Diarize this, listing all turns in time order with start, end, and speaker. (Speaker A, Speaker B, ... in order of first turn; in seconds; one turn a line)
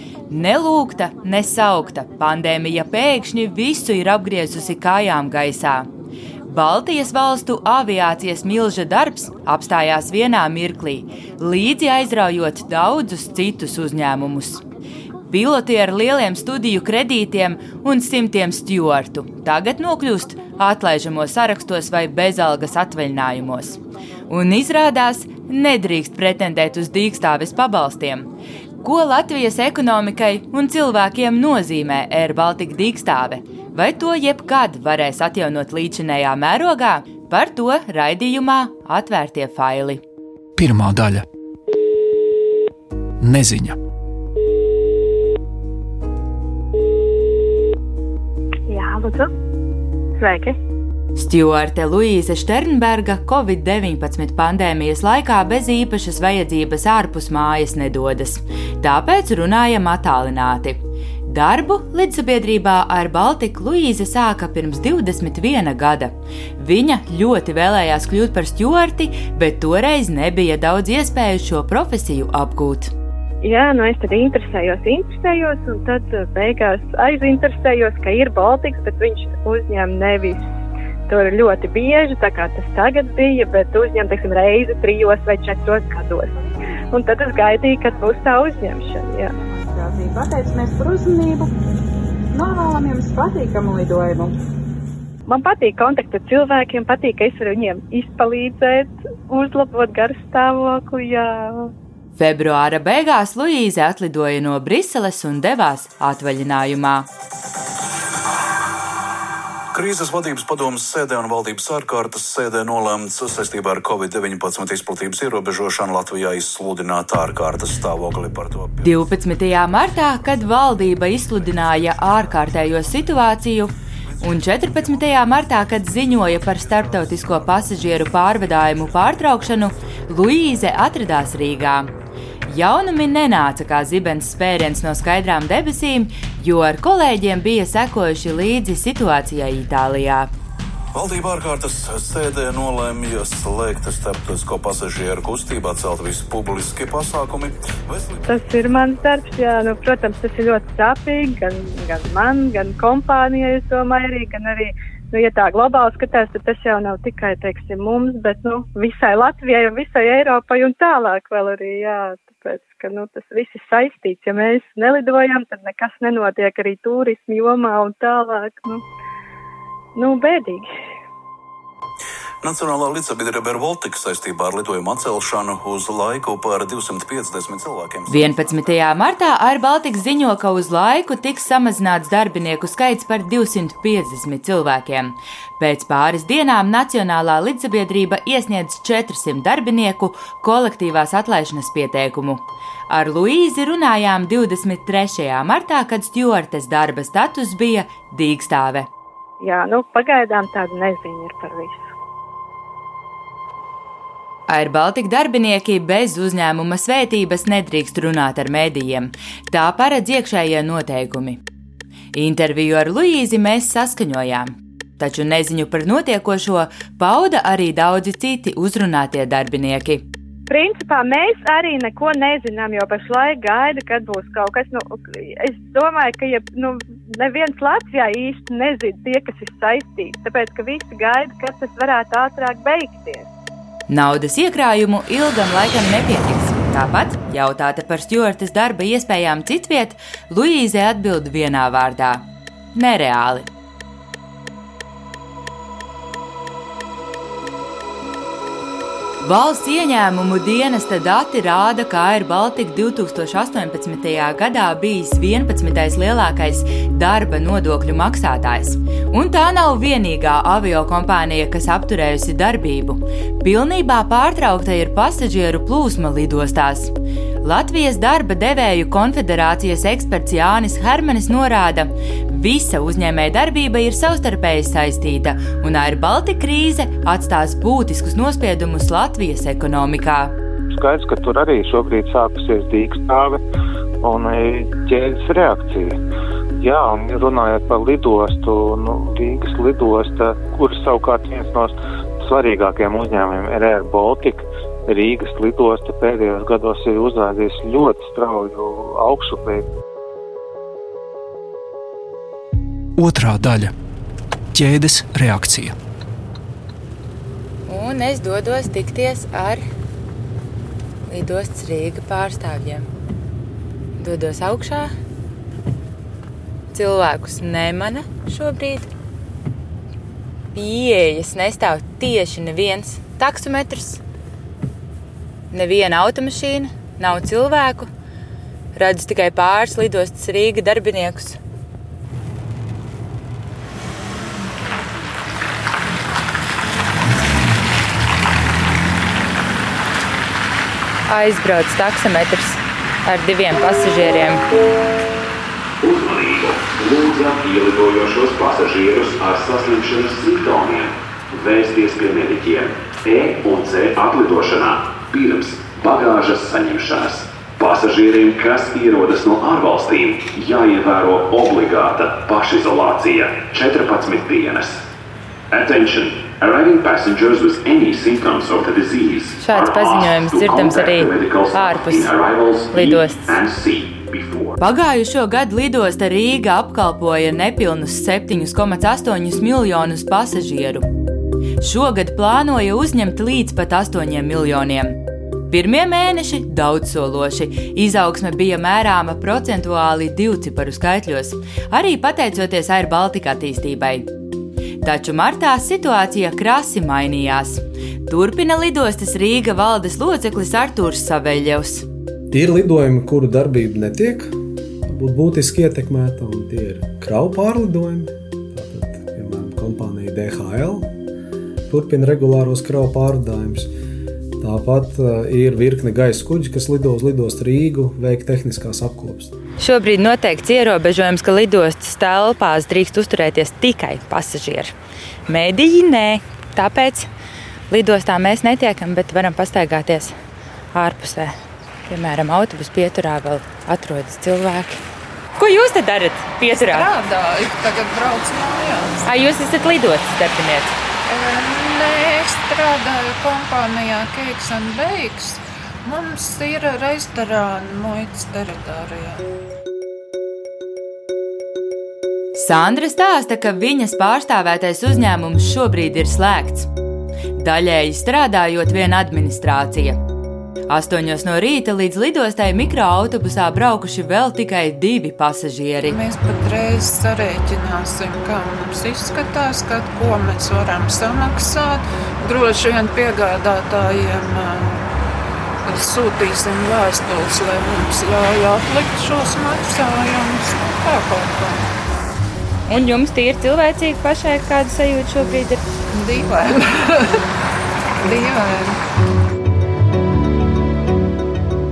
Speaker A: 0.3-5.9
Speaker A: 6.5-14.6
Speaker A: 15.3-28.3
Speaker A: 28.8-40.0
Speaker B: 40.6-41.3
Speaker B: 43.2-43.8
Speaker C: 48.7-49.3
Speaker C: 50.2-50.6
Speaker A: 51.2-72.9
Speaker C: 73.4-80.5
Speaker C: 81.1-86.3
Speaker C: 86.9-89.3
Speaker D: 89.7-91.5
Speaker D: 92.3-94.4
Speaker C: 95.3-101.7
Speaker A: 102.2-107.1
Speaker E: 109.7-118.8
Speaker A: 118.8-131.9
Speaker A: 132.5-140.3
Speaker E: 140.9-148.2
Speaker C: 148.3-168.8
Speaker C: 170.0-170.7
Speaker E: 172.4-178.8
Speaker A: 178.1-198.9
Speaker C: 199.4-201.9
Speaker A: 204.5-211.4
Speaker A: 212.1-220.0
Speaker C: 220.5-233.3
Speaker A: 233.9-243.5
Speaker A: 249.2-280.3
Speaker F: 280.7-283.4
Speaker F: 284.0-286.0
Speaker F: 286.6-299.6
Speaker B: 303.0-303.7
Speaker B: 304.5-305.8
Speaker A: 307.7-309.6
Speaker A: 311.1-312.9
Speaker A: 314.0-314.9
Speaker A: 316.7-318.9
Speaker A: 320.6-324.0
Speaker A: 325.5-327.9
Speaker A: 328.8-331.4
Speaker A: 341.1-344.4
Speaker G: 345.8-364.8
Speaker G: 365.5-374.6
Speaker A: 369.4-372.1
Speaker A: 372.7-373.3
Speaker A: 374.6-380.9
Speaker A: 381.6-385.0
Speaker A: 385.5-394.1
Speaker A: 394.8-401.9
Speaker H: 402.3-410.9
Speaker H: 411.7-413.7
Speaker H: 414.4-419.4
Speaker A: 419.6-424.7
Speaker A: 425.3-427.1
Speaker A: 427.7-430.1
Speaker A: 430.7-431.4
Speaker A: 431.9-434.8
Speaker A: 435.4-436.9
Speaker I: 436.5-439.1
Speaker A: 439.0-440.8
Speaker I: 441.1-449.2
Speaker A: 452.4-456.7
Speaker A: 457.4-460.0
Speaker A: 460.7-466.0
Speaker I: 465.8-474.8
Speaker I: 475.7-481.7
Speaker A: 482.7-485.6
Speaker I: 485.9-487.2
Speaker I: 488.0-488.8